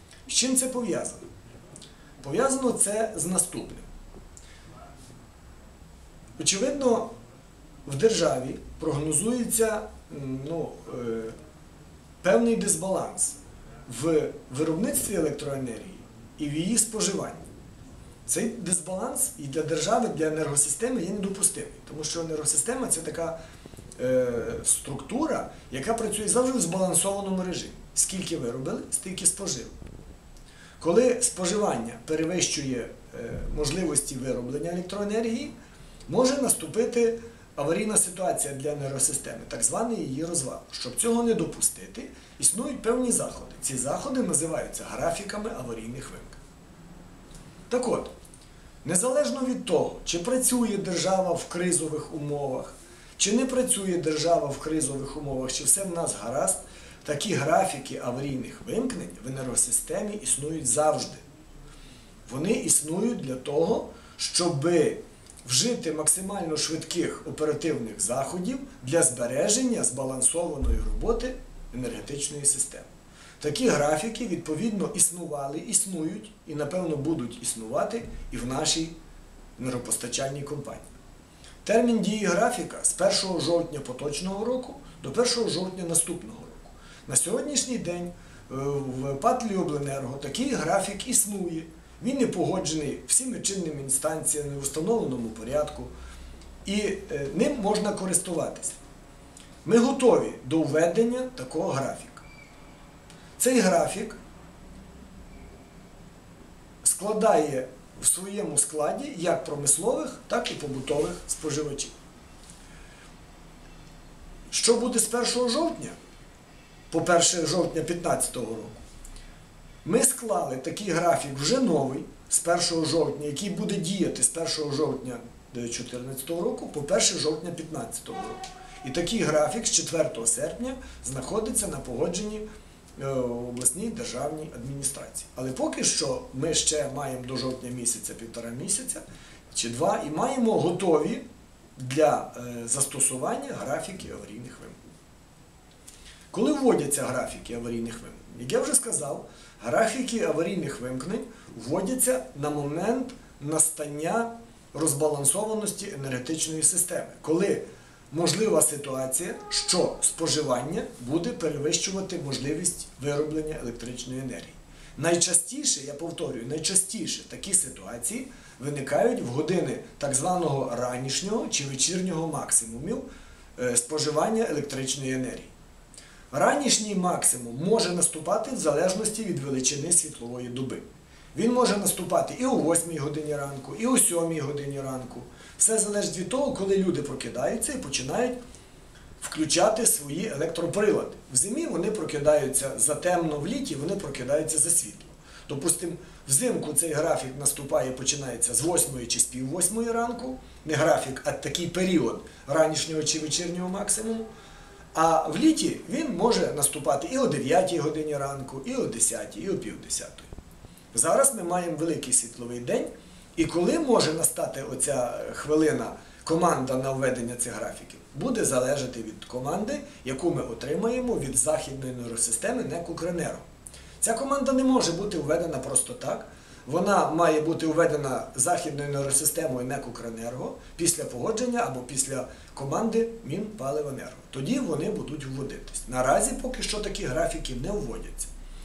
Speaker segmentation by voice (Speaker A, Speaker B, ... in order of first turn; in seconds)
Speaker A: 0.3-1.3, 2.2-3.8, 6.4-7.1, 7.8-11.3, 12.2-17.4, 18.2-23.4, 24.0-29.7, 30.8-35.5, 36.1-46.4, 47.7-48.1, 48.8-61.2, 62.3-72.9, 73.4-78.9, 79.6-80.9, 81.6-95.9, 96.6-98.8, 99.6-102.2, 103.4-104.2, 106.8-111.9, 114.5-116.0, 116.9-118.8, 119.8-132.4, 133.0-141.2, 141.8-144.8, 146.3-173.0, 173.6-175.5, 176.3-180.8, 181.3-188.4, 189.2-204.3, 204.9-210.3, 210.9-223.4, 224.0-238.3